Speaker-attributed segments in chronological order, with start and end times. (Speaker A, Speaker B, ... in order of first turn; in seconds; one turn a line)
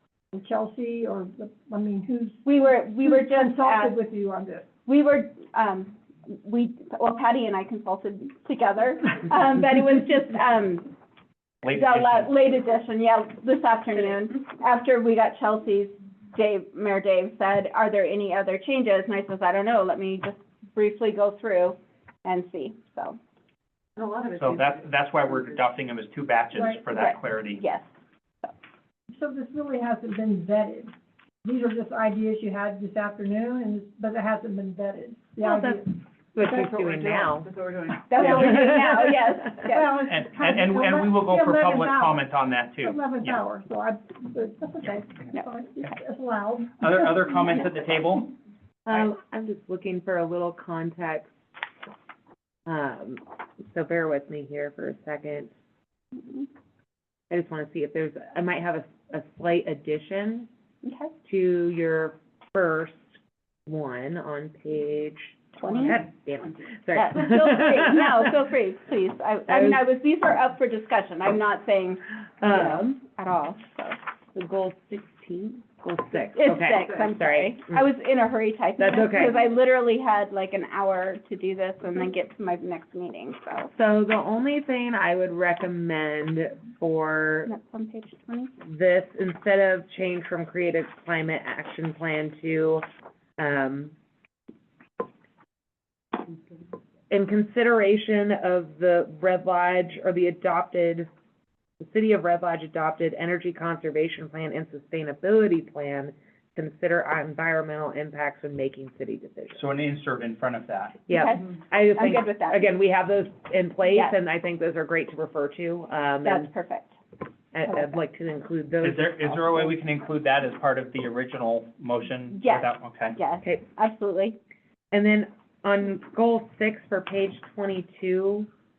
Speaker A: 0.3-4.7
Speaker B: 2.4-4.0
Speaker B: 4.8-10.9
Speaker C: 11.6-12.3
Speaker B: 11.7-23.2
Speaker D: 23.9-25.5
Speaker C: 24.4-27.6
Speaker A: 26.5-26.8
Speaker B: 26.9-27.9
Speaker A: 29.1-30.9
Speaker A: 31.4-35.9
Speaker E: 35.4-37.5
Speaker D: 36.4-38.7
Speaker B: 38.1-40.0
Speaker A: 38.2-47.2
Speaker E: 38.4-38.9
Speaker C: 40.0-43.4
Speaker C: 46.8-48.3
Speaker E: 48.9-51.3
Speaker E: 52.6-55.5
Speaker B: 56.2-56.5
Speaker E: 57.3-60.5
Speaker B: 60.8-61.1
Speaker E: 61.2-68.3
Speaker B: 65.6-66.0
Speaker B: 66.9-74.0
Speaker E: 69.5-69.8
Speaker E: 72.4-73.0
Speaker E: 74.3-77.8
Speaker B: 76.1-83.7
Speaker D: 76.8-77.1
Speaker E: 78.8-79.4
Speaker E: 83.7-87.5
Speaker B: 87.5-88.5
Speaker E: 88.6-92.8
Speaker E: 93.4-93.9
Speaker E: 97.1-101.1
Speaker E: 101.8-109.6
Speaker C: 109.5-111.1
Speaker E: 111.1-116.5
Speaker B: 111.1-112.7
Speaker B: 113.9-114.2
Speaker B: 116.2-117.0
Speaker E: 117.5-119.8
Speaker B: 117.7-117.9
Speaker C: 118.8-123.2
Speaker B: 122.3-124.4
Speaker E: 124.9-128.5